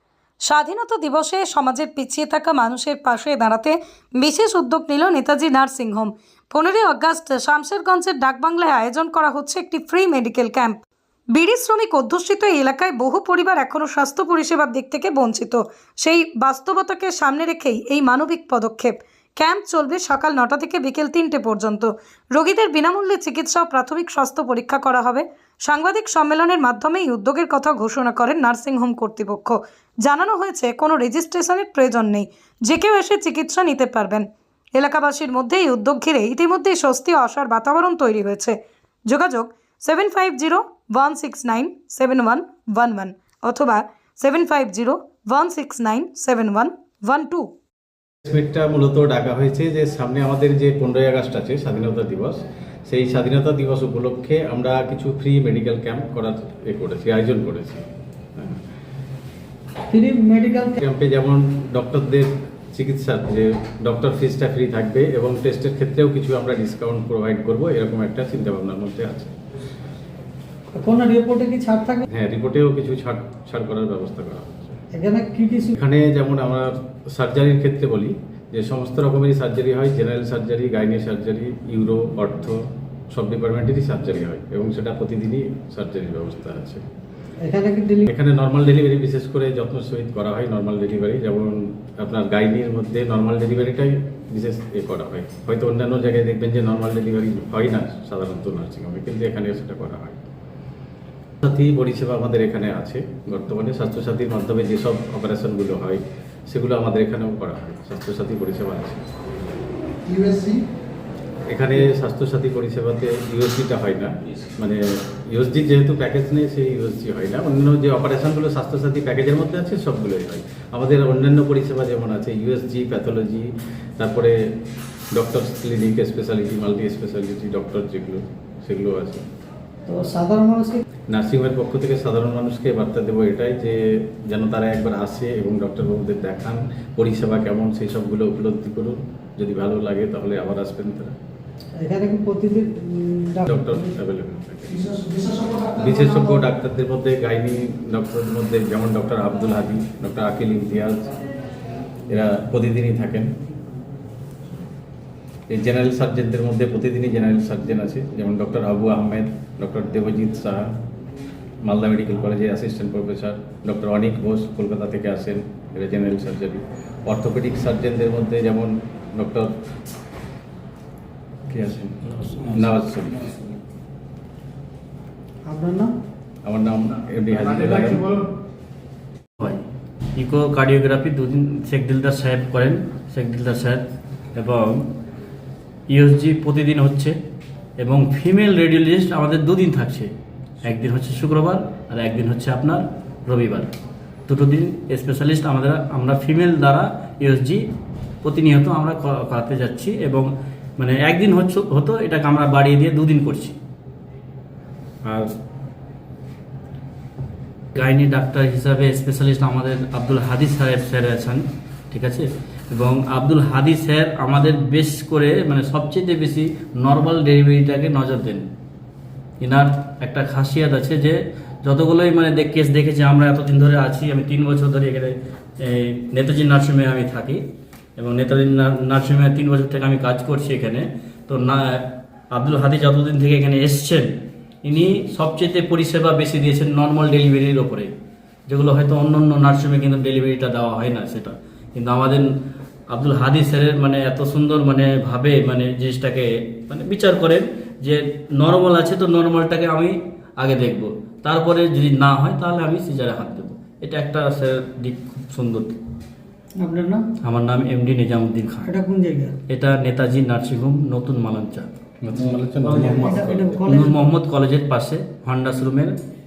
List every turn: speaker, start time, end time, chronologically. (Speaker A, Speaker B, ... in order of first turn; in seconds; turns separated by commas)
Speaker A: 0.4-47.5, Speaker B: 48.2-57.8, Speaker C: 59.9-60.8, Speaker B: 60.8-69.3, Speaker C: 70.7-72.1, Speaker B: 72.1-74.8, Speaker C: 74.9-75.7, Speaker B: 75.7-82.6, Speaker B: 83.1-86.8, Speaker C: 87.4-88.1, Speaker B: 88.1-100.2, Speaker B: 101.4-109.0, Speaker B: 111.5-124.3, Speaker B: 125.1-129.2, Speaker C: 129.9-130.8, Speaker B: 131.1-141.1, Speaker C: 141.8-143.8, Speaker B: 143.4-144.9, Speaker B: 145.7-151.1, Speaker B: 152.1-153.3, Speaker B: 155.5-160.7, Speaker B: 161.6-169.5, Speaker B: 171.5-172.0, Speaker D: 172.2-172.5, Speaker B: 172.5-173.3, Speaker C: 175.5-175.9, Speaker B: 176.4-178.2, Speaker D: 180.2-183.8, Speaker D: 184.3-184.9, Speaker D: 185.9-187.1, Speaker D: 187.8-190.1, Speaker D: 190.6-193.7, Speaker D: 194.3-197.6, Speaker D: 198.2-203.6, Speaker D: 205.0-205.3, Speaker D: 207.7-218.5, Speaker D: 219.4-227.4, Speaker D: 228.0-234.1, Speaker D: 234.6-237.9, Speaker D: 238.5-242.3, Speaker D: 242.9-255.8, Speaker C: 256.6-257.1, Speaker D: 257.2-258.7, Speaker C: 258.6-259.4, Speaker D: 259.5-261.8, Speaker B: 262.0-263.6, Speaker D: 262.6-265.9, Speaker C: 262.9-264.0